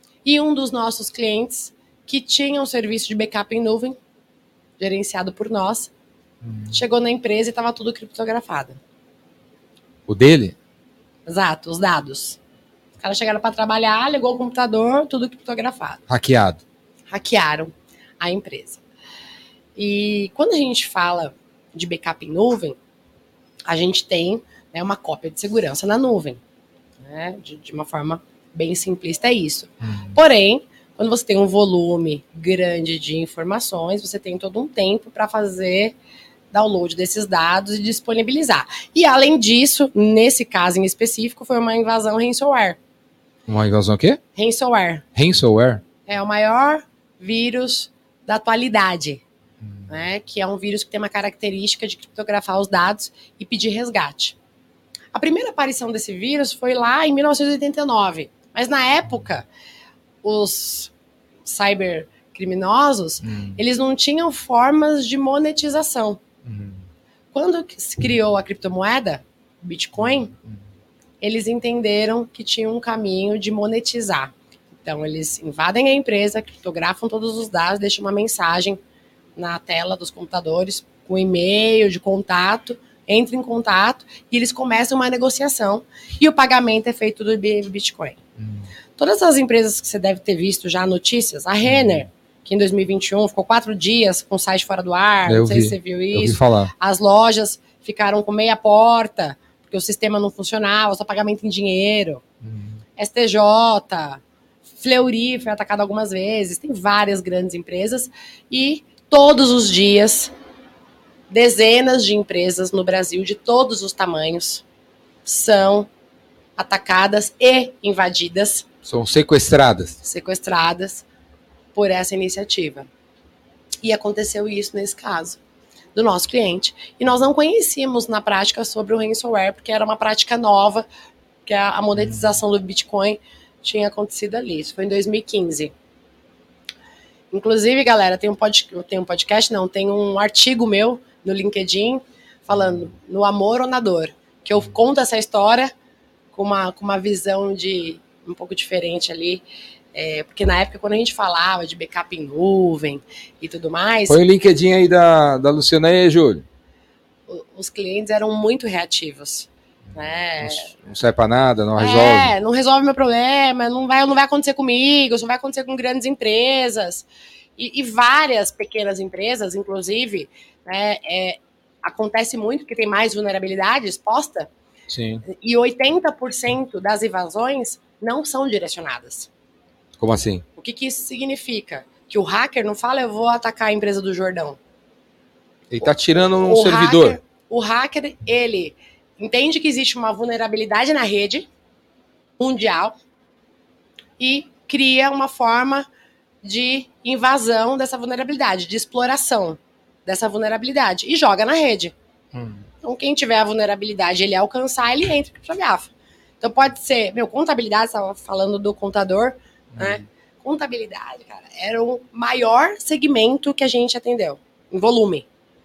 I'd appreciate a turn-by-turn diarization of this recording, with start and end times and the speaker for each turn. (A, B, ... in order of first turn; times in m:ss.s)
0:00.2-0:04.0 A
0:04.8-0:05.9 A
0:06.4-0:06.8 B
0:06.7-0:08.8 A
0:10.1-0:10.6 B
0:11.3-0:12.4 A
0:13.0-0:16.0 A
0:16.1-0:16.6 B
0:17.1-0:18.8 A
0:19.8-0:22.8 A
0:23.7-0:26.4 A
0:27.0-0:36.0 A
0:29.8-0:30.2 B
0:36.5-0:42.8 A
0:43.5-0:44.2 B
0:44.4-0:45.0 A
0:45.2-0:45.8 B
0:46.1-0:49.2 A
0:49.9-0:54.4 A
0:55.1-0:59.5 A
1:00.2-1:00.9 A
1:01.4-1:06.2 A
1:03.2-1:03.6 B
1:06.4-1:06.8 B
1:07.3-1:10.3 A
1:11.2-1:18.8 A
1:19.4-1:28.2 A
1:28.4-1:28.7 B
1:29.0-1:42.2 A
1:31.7-1:32.1 B
1:35.3-1:36.7 B
1:42.4-1:42.8 B
1:43.0-1:44.2 A
1:44.8-1:50.3 A
1:51.3-1:54.6 A
1:55.2-1:55.9 A
1:56.6-1:58.7 A
1:58.8-2:00.0 B
2:00.0-2:01.0 A
2:01.8-2:02.9 A
2:03.8-2:05.4 A
2:06.0-2:10.9 A
2:11.5-2:15.7 A
2:12.0-2:12.2 B
2:17.3-2:25.7 A
2:26.3-2:29.4 A
2:29.9-2:34.2 A
2:34.1-2:36.4 B
2:37.3-2:40.7 A
2:40.4-2:42.3 B
2:41.8-2:54.5 A
2:54.9-2:55.2 B
2:55.3-2:59.3 A
3:00.0-3:00.4 B
3:00.6-3:04.6 A
3:05.7-3:07.2 B
3:05.8-3:11.5 A
3:12.4-3:13.0 A
3:14.2-3:15.9 A
3:16.4-3:21.9 A
3:22.3-3:22.7 B
3:22.8-3:25.9 A
3:26.4-3:35.3 A
3:29.8-3:30.0 B